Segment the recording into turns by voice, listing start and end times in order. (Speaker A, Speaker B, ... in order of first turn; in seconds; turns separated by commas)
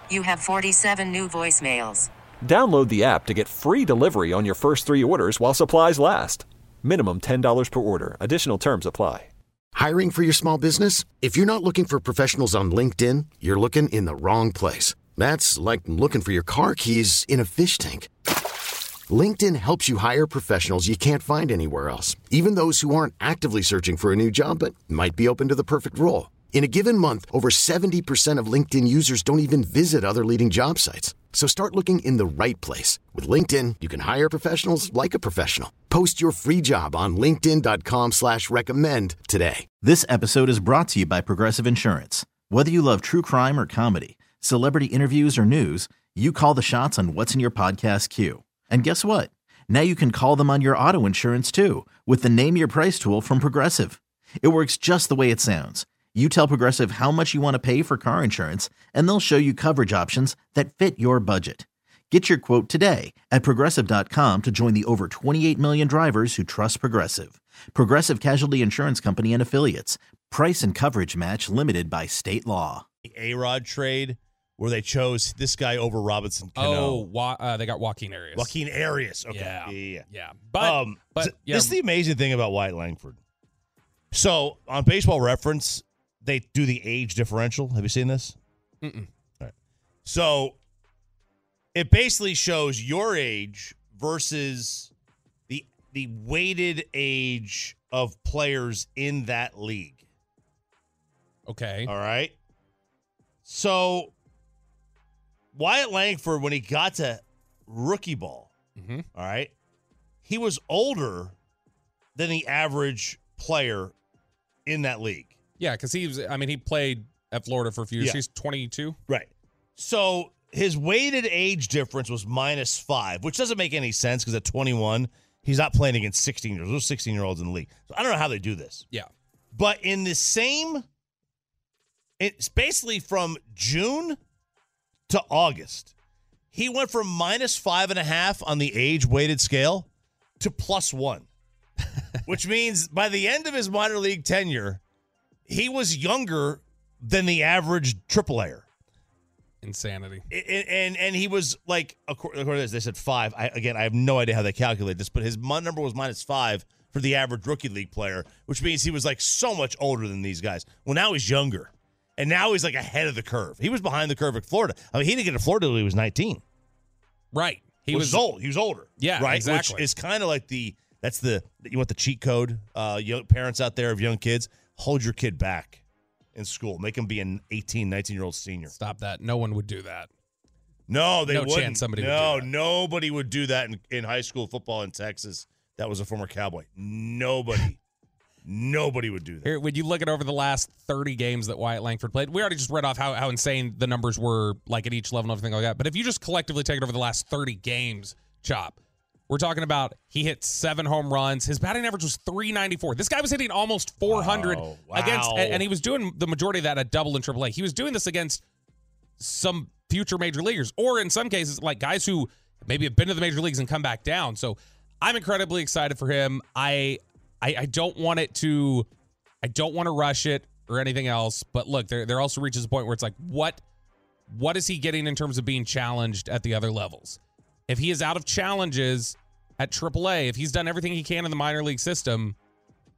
Speaker A: 0.1-2.1, Speaker B: 2.4-9.3, Speaker C: 9.8-18.1, Speaker C: 19.1-39.7, Speaker D: 39.8-72.8, Speaker E: 73.0-77.1, Speaker F: 76.6-78.5, Speaker E: 78.4-80.1, Speaker F: 79.3-81.8, Speaker E: 80.6-83.2, Speaker E: 84.1-88.4, Speaker F: 88.8-89.1, Speaker E: 90.1-90.6, Speaker E: 91.8-94.9, Speaker E: 95.5-100.0, Speaker F: 101.5-101.9, Speaker E: 101.9-102.4, Speaker E: 103.5-104.1, Speaker E: 105.5-108.5, Speaker F: 108.8-109.1, Speaker E: 109.1-109.5, Speaker E: 110.2-111.4, Speaker E: 112.2-113.9, Speaker E: 114.7-115.3, Speaker F: 115.6-119.0, Speaker E: 119.1-128.8, Speaker E: 129.5-130.8, Speaker E: 132.2-134.2, Speaker E: 135.1-135.9, Speaker E: 136.5-139.9, Speaker E: 140.4-141.3, Speaker E: 142.3-144.8, Speaker E: 145.5-148.7, Speaker F: 149.6-150.2, Speaker E: 150.3-166.4, Speaker F: 167.3-168.2, Speaker E: 167.9-175.8, Speaker F: 169.0-169.9, Speaker E: 176.3-178.7, Speaker F: 178.7-180.1, Speaker E: 180.9-187.8, Speaker F: 181.3-182.5, Speaker E: 188.4-189.6, Speaker F: 189.4-198.8, Speaker F: 199.3-208.4, Speaker E: 204.1-205.7, Speaker F: 209.2-218.9, Speaker F: 219.4-223.6, Speaker F: 224.3-232.4